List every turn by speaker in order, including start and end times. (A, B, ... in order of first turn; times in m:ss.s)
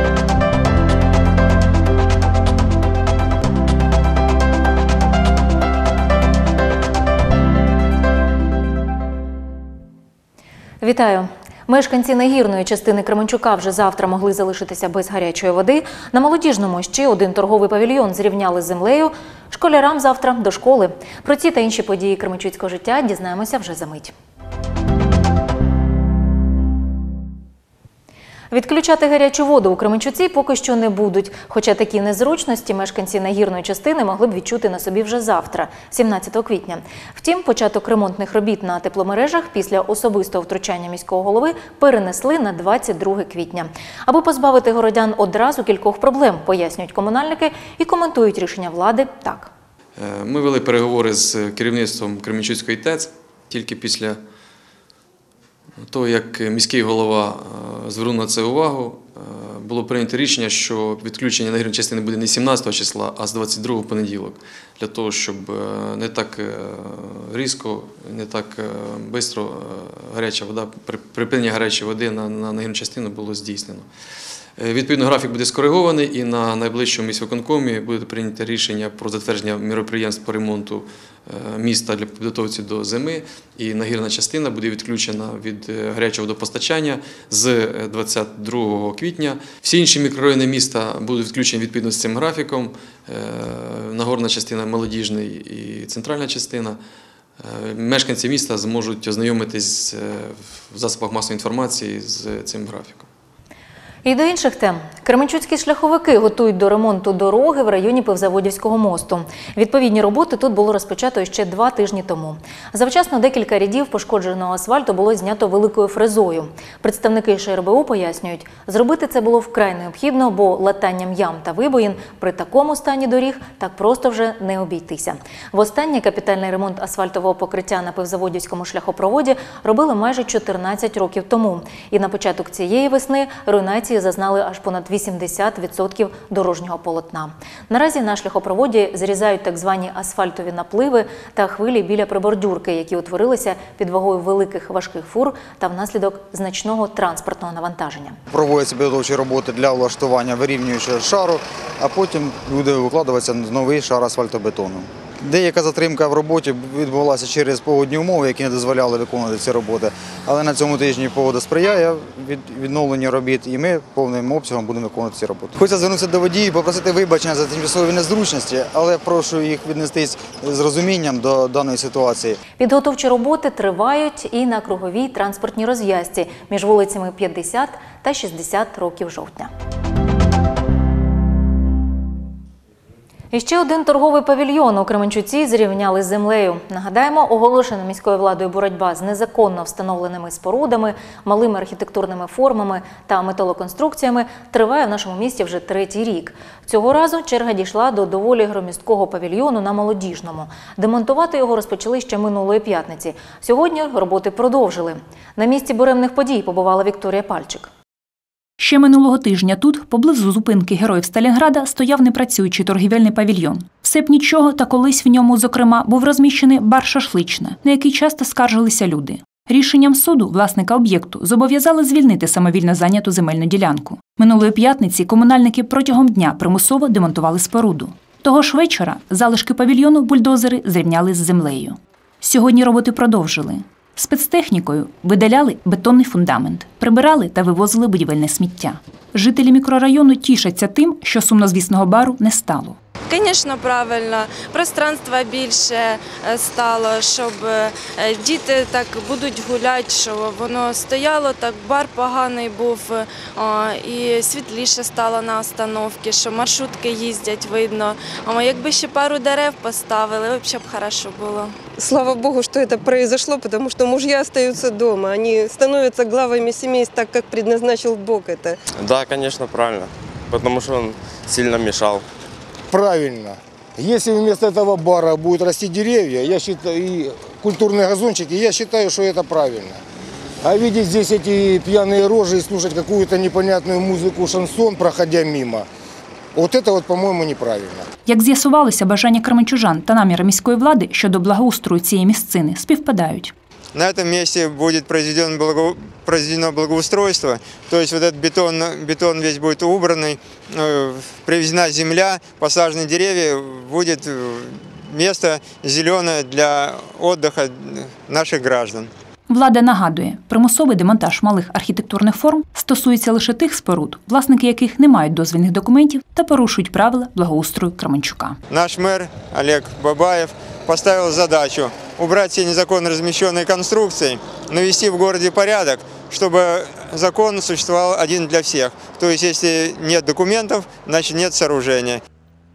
0:10.8-0:24.1 A
0:28.5-0:49.5 A
0:50.0-0:54.2 B
0:55.8-1:13.8 B
1:14.6-1:36.8 B
1:37.4-1:43.1 B
1:44.0-2:28.2 A
2:28.3-2:52.4 C
2:52.6-2:59.5 A
3:03.3-3:27.7 A
3:28.6-4:02.8 D
4:03.1-4:21.5 E
4:21.8-4:28.6 F
4:28.8-4:32.0 G
4:32.7-4:39.8 H
4:40.4-4:45.7 H
4:46.3-4:47.8 H
4:48.0-4:53.3 D
4:53.7-5:08.9 I
5:09.3-5:18.4 D
5:18.5-5:32.0 I